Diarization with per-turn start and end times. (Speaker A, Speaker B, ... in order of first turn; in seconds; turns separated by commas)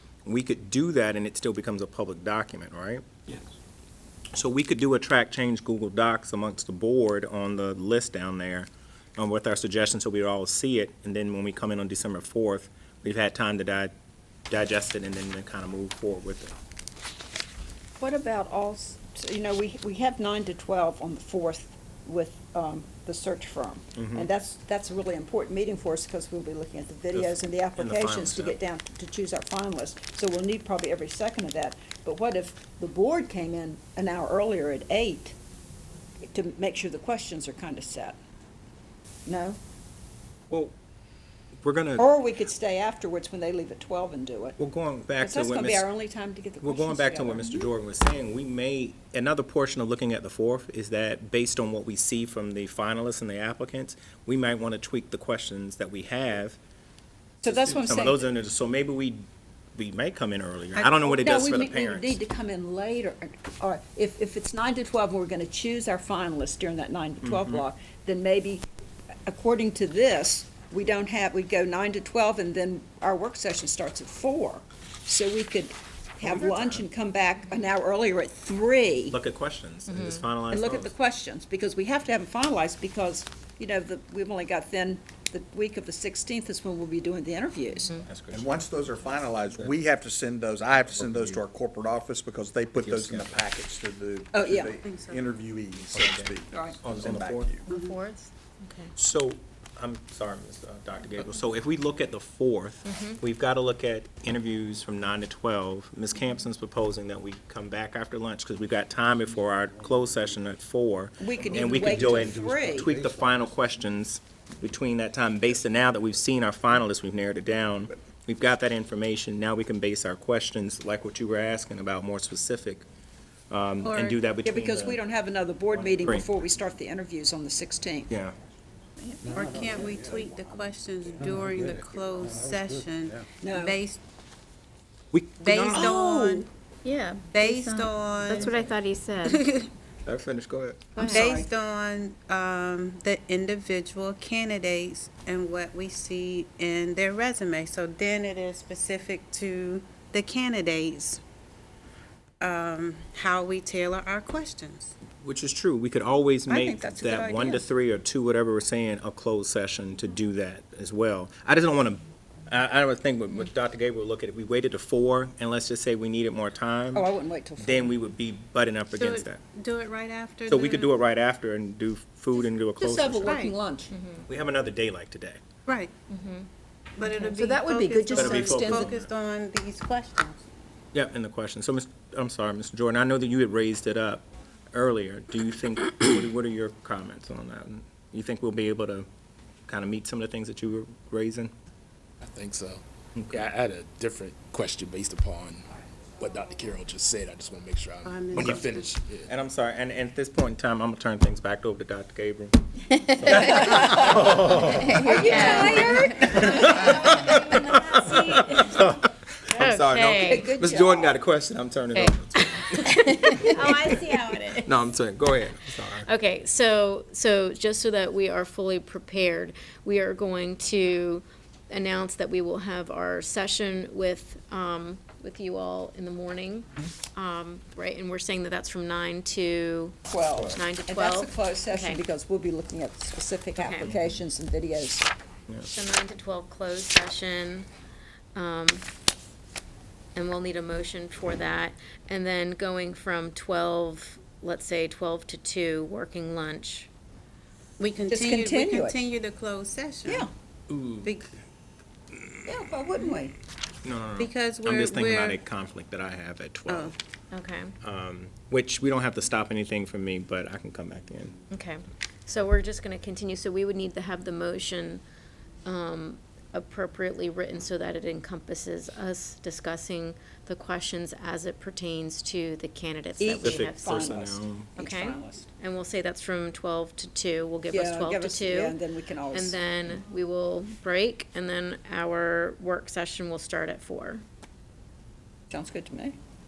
Speaker A: 0.2-3.0, Speaker A: 4.3-13.9, Speaker A: 14.5-16.5, Speaker B: 18.0-35.3, Speaker A: 23.9-24.3, Speaker A: 27.1-28.6, Speaker B: 36.2-38.2, Speaker B: 39.2-39.6, Speaker A: 41.6-42.0, Speaker B: 42.0-44.6, Speaker A: 44.6-45.9, Speaker B: 45.2-47.7, Speaker A: 46.6-56.6, Speaker B: 57.4-58.3, Speaker A: 57.5-62.2, Speaker B: 60.8-68.7, Speaker A: 67.2-67.6, Speaker B: 69.2-79.2, Speaker A: 76.2-76.8, Speaker A: 79.1-80.9, Speaker B: 80.5-87.9, Speaker A: 88.0-88.7, Speaker C: 88.3-97.7, Speaker A: 91.0-91.4, Speaker A: 92.8-93.4, Speaker B: 94.3-94.8, Speaker D: 94.8-95.2, Speaker A: 95.9-97.5, Speaker B: 96.5-96.8, Speaker E: 97.7-98.9, Speaker D: 97.7-97.9, Speaker A: 99.0-122.8, Speaker E: 102.8-103.2, Speaker B: 111.2-112.9, Speaker A: 123.5-125.0, Speaker D: 123.8-124.2, Speaker B: 124.4-128.1, Speaker A: 125.9-126.3, Speaker D: 129.0-134.0, Speaker B: 133.4-133.8, Speaker A: 135.1-135.9, Speaker D: 135.4-136.5, Speaker B: 135.7-136.5, Speaker D: 137.3-138.6, Speaker E: 138.2-139.4, Speaker D: 139.2-139.7, Speaker A: 140.0-141.0, Speaker E: 140.9-141.4, Speaker D: 141.0-151.2, Speaker B: 141.1-141.4, Speaker D: 152.4-154.9, Speaker A: 155.2-167.1, Speaker B: 156.5-157.6, Speaker B: 166.9-167.9, Speaker A: 167.6-169.4, Speaker D: 169.0-170.9, Speaker A: 170.5-173.4, Speaker B: 172.8-173.9, Speaker D: 173.2-173.5, Speaker E: 173.9-174.2, Speaker A: 174.3-175.4, Speaker D: 175.7-175.9, Speaker E: 176.1-176.5, Speaker D: 177.0-180.4, Speaker E: 177.0-177.4, Speaker B: 177.3-178.9, Speaker A: 178.1-179.1, Speaker A: 180.9-189.1, Speaker A: 189.7-191.5, Speaker F: 192.2-192.8, Speaker F: 193.3-195.7, Speaker F: 196.2-199.3, Speaker D: 198.0-198.9, Speaker A: 199.3-202.6, Speaker A: 203.1-212.6, Speaker E: 203.2-203.9, Speaker E: 204.5-207.3, Speaker B: 205.0-207.0, Speaker E: 208.3-208.6, Speaker E: 209.5-210.5, Speaker B: 210.2-211.2, Speaker E: 212.6-214.3, Speaker A: 214.6-216.1, Speaker E: 216.0-232.0, Speaker B: 230.1-235.1, Speaker E: 233.6-233.9, Speaker E: 235.7-237.7, Speaker E: 238.3-238.9, Speaker E: 240.1-246.9, Speaker D: 247.8-250.3, Speaker B: 248.1-249.0, Speaker B: 250.0-250.3, Speaker A: 250.7-251.1, Speaker D: 251.0-251.3, Speaker B: 252.4-253.3, Speaker A: 253.8-256.9, Speaker D: 254.2-255.4, Speaker D: 256.7-256.9, Speaker E: 257.3-257.7, Speaker A: 257.8-261.3, Speaker E: 261.5-265.0, Speaker E: 265.6-278.8, Speaker B: 273.2-275.5, Speaker A: 273.4-274.7, Speaker B: 277.7-279.6, Speaker E: 279.3-284.2, Speaker B: 285.5-286.1